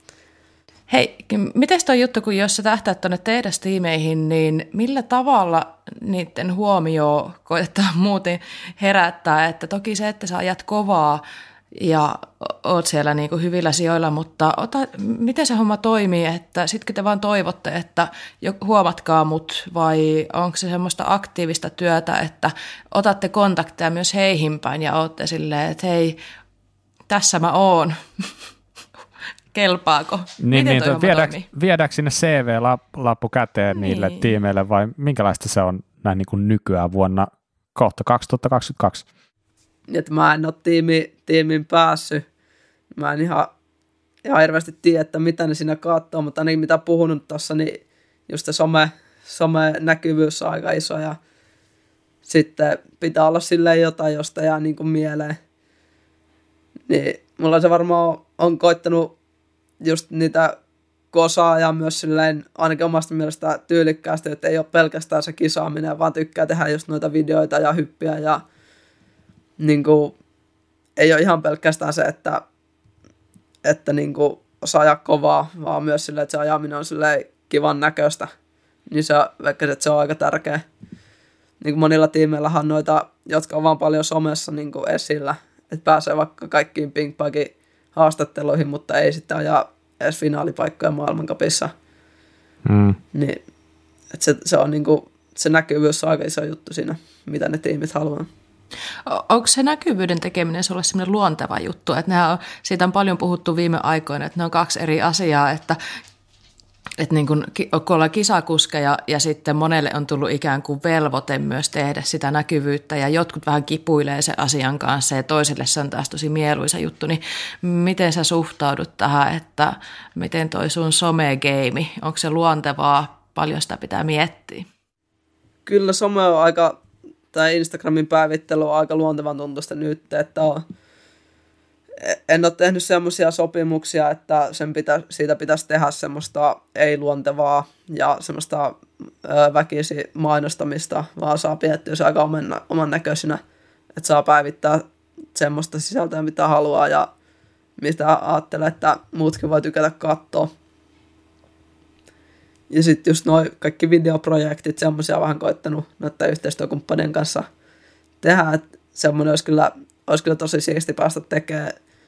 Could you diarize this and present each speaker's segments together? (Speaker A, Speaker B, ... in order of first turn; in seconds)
Speaker A: 0.9-26.2, 27.1-28.3, 29.5-31.5, 33.8-34.2, 99.0-105.8, 107.0-124.7
Speaker B: 30.4-39.0, 92.7-93.0
Speaker C: 39.9-42.2, 43.0-43.5, 44.2-51.2, 52.3-55.4, 56.9-59.1, 59.8-60.6, 61.1-68.4, 69.6-70.2, 71.0-72.4, 73.6-78.3, 78.9-80.6, 81.6-91.7, 93.1-93.4, 94.1-98.3, 125.7-126.8, 127.3-130.6, 132.0-143.4, 143.9-147.1, 147.8-150.5, 152.7-157.5, 158.2-161.7